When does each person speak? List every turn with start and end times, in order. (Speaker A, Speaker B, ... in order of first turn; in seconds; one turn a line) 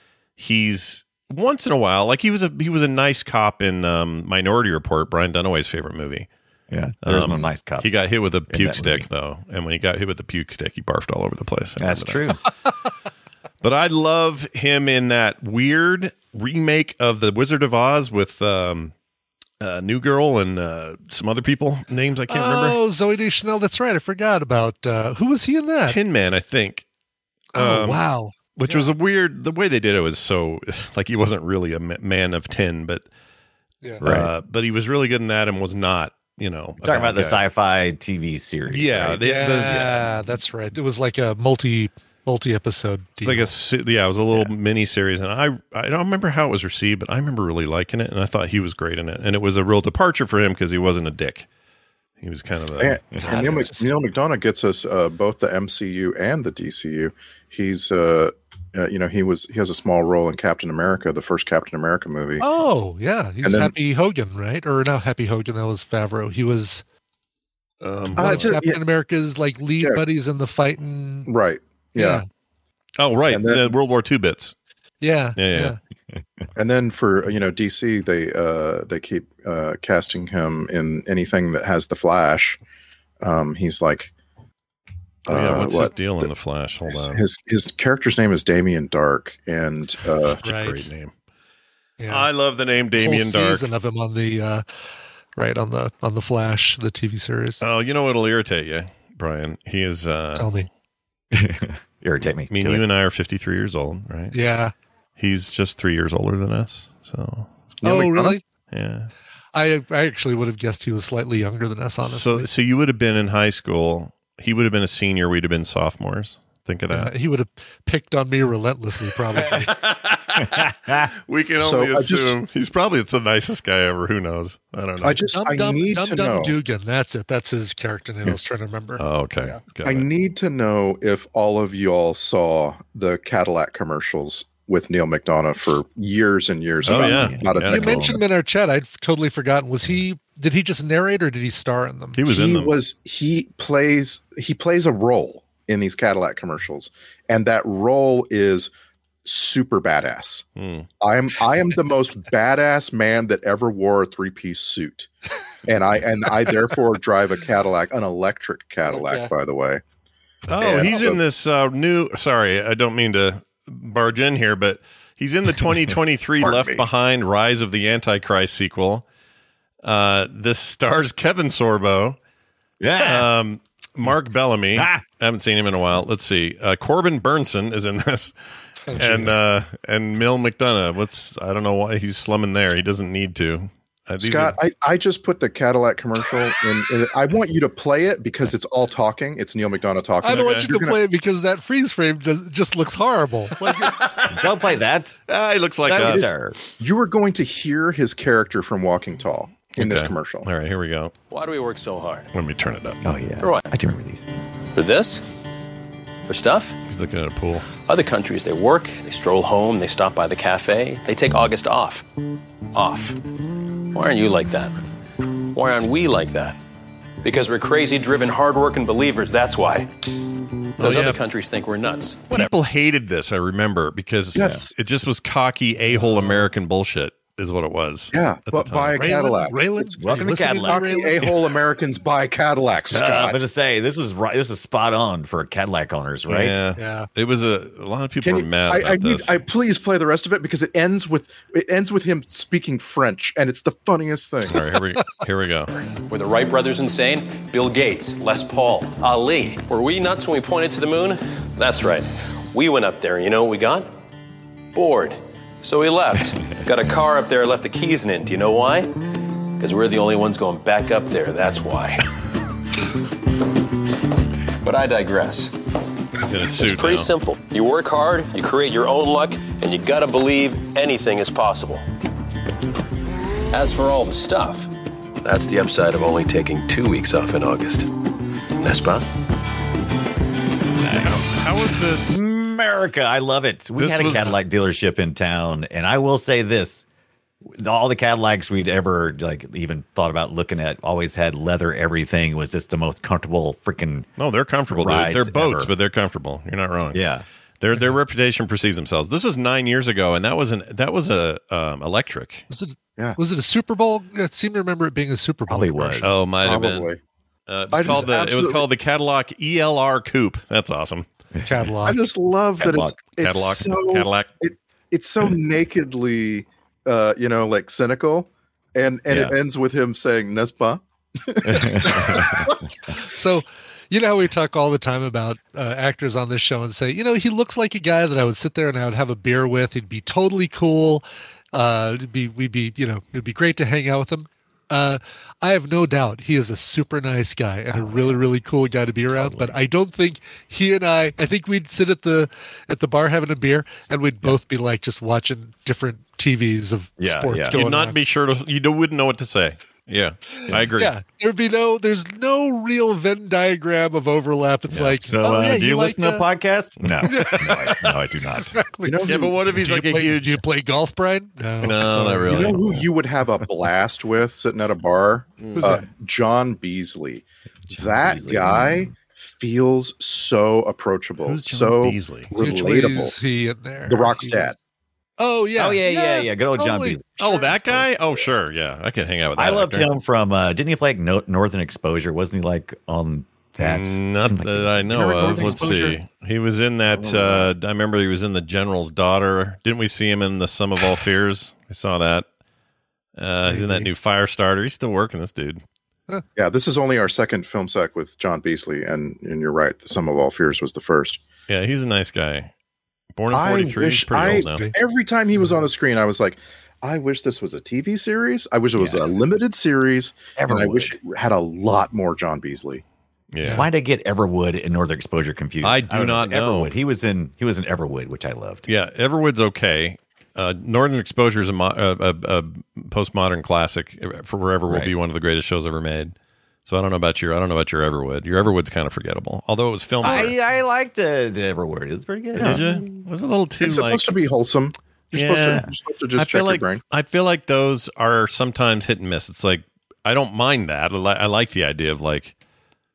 Speaker A: 0.4-6.3
Speaker B: 6.7-9.1
Speaker A: 7.0-12.3
Speaker B: 11.8-12.4
Speaker A: 13.6-18.9
Speaker A: 19.6-22.8
Speaker C: 22.3-26.0
Speaker A: 25.9-26.9
Speaker C: 27.6-28.9
Speaker A: 27.6-28.0
Speaker A: 28.5-33.1
Speaker B: 34.0-34.3
Speaker A: 34.0-37.4
Speaker B: 36.8-40.0
Speaker A: 38.7-40.0
Speaker C: 39.2-43.5
Speaker A: 43.2-51.5
Speaker A: 52.2-53.0
Speaker D: 52.8-62.5
Speaker B: 53.2-53.7
Speaker C: 62.4-66.8
Speaker D: 63.4-63.7
Speaker A: 67.8-68.5
Speaker D: 68.2-68.8
Speaker C: 68.2-71.3
Speaker D: 71.3-72.2
Speaker C: 72.0-72.2
Speaker A: 73.0-74.5
Speaker D: 73.3-73.7
Speaker C: 75.0-75.8
Speaker A: 75.4-75.8
Speaker D: 76.6-82.6
Speaker D: 83.2-84.1
Speaker D: 85.3-86.3
Speaker A: 85.3-87.2
Speaker D: 86.9-90.4
Speaker A: 90.2-91.1
Speaker C: 90.4-90.9
Speaker C: 92.0-92.3
Speaker A: 92.1-93.7
Speaker C: 93.0-94.6
Speaker C: 95.4-97.6
Speaker A: 97.6-100.6
Speaker C: 100.3-100.7
Speaker B: 101.3-102.8
Speaker A: 102.5-104.3
Speaker C: 104.3-104.7
Speaker A: 105.2-107.5
Speaker D: 107.8-108.4
Speaker C: 107.8-108.4
Speaker A: 108.7-109.1
Speaker C: 109.5-112.5
Speaker A: 112.0-117.1
Speaker C: 116.9-119.7
Speaker A: 119.4-125.2
Speaker B: 120.4-121.1
Speaker D: 121.6-122.3
Speaker D: 125.0-126.5
Speaker C: 125.3-129.0
Speaker A: 129.0-130.1
Speaker D: 129.8-138.2
Speaker B: 136.8-138.2
Speaker A: 136.9-137.8
Speaker C: 137.7-142.2
Speaker A: 142.2-142.8
Speaker D: 142.3-148.7
Speaker D: 149.2-150.5
Speaker A: 150.6-150.9
Speaker D: 151.0-155.1
Speaker D: 155.7-159.8
Speaker C: 158.9-159.3
Speaker A: 160.5-169.0
Speaker D: 160.6-161.2
Speaker B: 166.4-166.8
Speaker A: 169.8-172.2
Speaker B: 172.8-173.3
Speaker A: 173.0-178.3
Speaker B: 174.8-175.0
Speaker C: 178.9-179.4
Speaker A: 178.9-184.6
Speaker D: 184.2-191.0
Speaker C: 190.2-193.9
Speaker A: 190.4-190.7
Speaker A: 193.6-194.8
Speaker B: 194.3-195.2
Speaker A: 195.3-196.3
Speaker B: 195.8-196.6
Speaker D: 196.0-200.5
Speaker A: 199.7-201.1
Speaker E: 201.3-202.3
Speaker A: 202.3-203.0
Speaker B: 203.0-204.3
Speaker E: 203.4-203.7
Speaker E: 204.8-205.2
Speaker E: 206.3-206.8
Speaker A: 206.8-207.7
Speaker E: 207.7-212.1
Speaker E: 212.7-213.2
Speaker E: 213.9-214.8
Speaker E: 215.5-216.6
Speaker E: 217.2-219.9
Speaker E: 220.8-222.5
Speaker A: 220.8-221.2
Speaker A: 222.3-229.0
Speaker D: 224.3-224.7
Speaker B: 224.4-224.6
Speaker D: 228.1-230.0
Speaker C: 229.0-231.3
Speaker B: 230.0-231.0
Speaker D: 230.6-233.4
Speaker B: 232.9-236.6
Speaker A: 236.3-239.4
Speaker C: 236.8-237.1
Speaker D: 238.2-244.7
Speaker A: 244.5-245.7
Speaker E: 246.0-253.9
Speaker E: 254.7-259.0
Speaker E: 259.6-262.0
Speaker E: 264.6-265.5
Speaker A: 266.2-267.1
Speaker E: 266.5-271.8
Speaker E: 273.5-274.7
Speaker E: 275.2-277.9
Speaker E: 278.6-279.1
Speaker B: 280.8-281.2
Speaker A: 280.8-282.2
Speaker B: 282.1-286.9
Speaker A: 283.8-284.4
Speaker B: 287.4-294.1
Speaker A: 294.2-297.0
Speaker B: 294.7-295.7
Speaker B: 296.9-297.2
Speaker A: 297.6-302.5
Speaker C: 302.5-306.1
Speaker B: 305.5-306.1
Speaker A: 306.0-306.9
Speaker D: 306.4-307.0
Speaker A: 307.5-311.1
Speaker D: 307.7-308.6
Speaker C: 311.4-312.0
Speaker D: 311.8-322.6
Speaker B: 312.6-313.0
Speaker A: 313.2-314.3
Speaker B: 319.1-319.4
Speaker B: 321.4-322.6
Speaker C: 323.0-348.0
Speaker B: 337.7-338.2
Speaker B: 339.1-339.6
Speaker B: 347.0-347.6
Speaker A: 347.5-350.9
Speaker C: 350.4-356.3
Speaker B: 350.5-350.7
Speaker B: 354.7-358.6
Speaker C: 357.1-362.6
Speaker D: 358.8-359.4
Speaker A: 359.1-360.4
Speaker A: 361.6-362.9
Speaker D: 362.3-373.2
Speaker A: 365.4-365.7
Speaker C: 365.6-365.9
Speaker B: 367.7-368.9
Speaker A: 371.2-372.3
Speaker C: 372.4-374.5
Speaker D: 373.9-374.6
Speaker C: 375.2-377.4
Speaker B: 375.6-377.9
Speaker A: 377.2-380.0
Speaker B: 379.4-386.0
Speaker A: 383.6-392.3
Speaker D: 385.2-385.9
Speaker B: 386.9-387.5
Speaker A: 393.2-395.6
Speaker D: 393.5-393.9
Speaker D: 396.4-401.2
Speaker A: 401.5-402.5
Speaker A: 403.2-404.7
Speaker D: 403.3-412.8
Speaker C: 404.4-404.8
Speaker B: 408.8-409.1
Speaker B: 410.4-410.9
Speaker A: 413.3-413.7
Speaker C: 413.4-413.7
Speaker B: 413.5-418.7
Speaker A: 415.6-416.7
Speaker A: 418.7-426.1
Speaker B: 424.7-424.9
Speaker A: 426.7-430.4
Speaker B: 430.0-432.9
Speaker D: 432.4-432.6
Speaker A: 432.4-434.1
Speaker D: 433.6-436.8
Speaker A: 435.1-435.7
Speaker A: 436.2-442.3